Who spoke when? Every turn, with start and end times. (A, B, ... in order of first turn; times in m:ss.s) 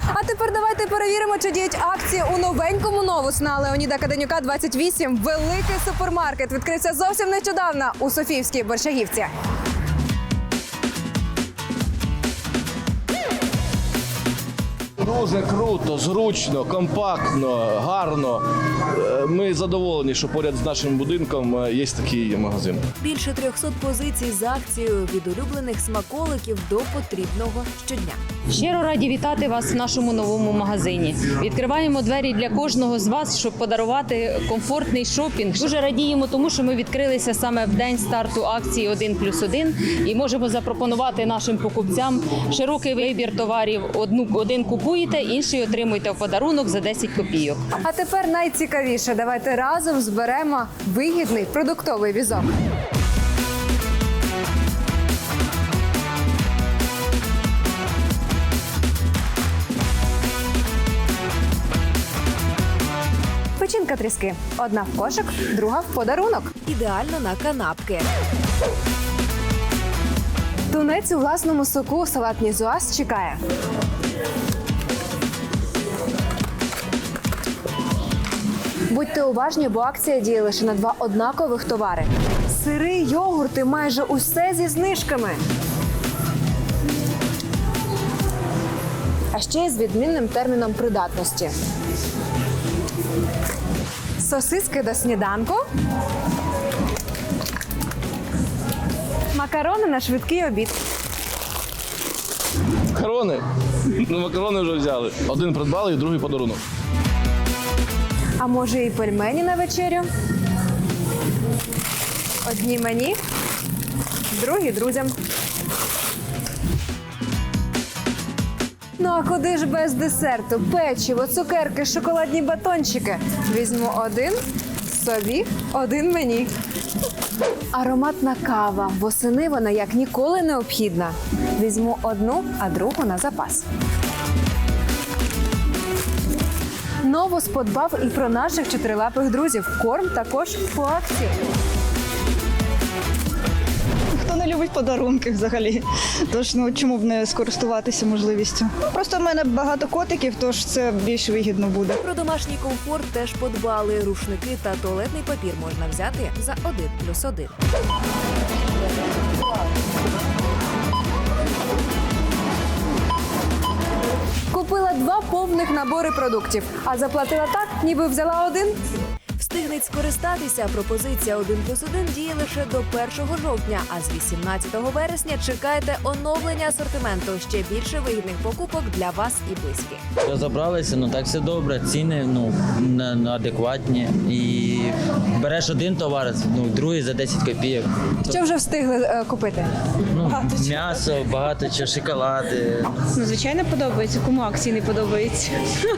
0:00.1-0:09.3 A
0:15.0-0:22.8 B
0:23.0-0:28.2 C
0:28.5-0:47.6 D
0:47.8-0:52.5 A
1:03.6-1:06.5 A
1:06.6-1:08.1 C
1:10.7-1:13.4 A
1:18.9-1:25.4 A
1:29.3-1:31.5 A
1:34.2-1:35.6 A
1:39.3-1:40.8 A
1:42.9-1:46.6 B
1:48.4-1:50.0 A
1:52.4-1:53.2 A
1:54.3-1:55.1 A
1:59.0-2:06.5 A
2:07.7-2:13.6 A
2:17.0-2:21.3 A
2:24.1-2:32.0 E
2:32.0-2:37.6 C
2:44.5-2:48.8 A
2:49.4-3:00.0 C
3:00.2-3:08.4 F
3:08.3-3:09.7 A
3:10.1-3:13.0 F
3:13.2-3:15.5 G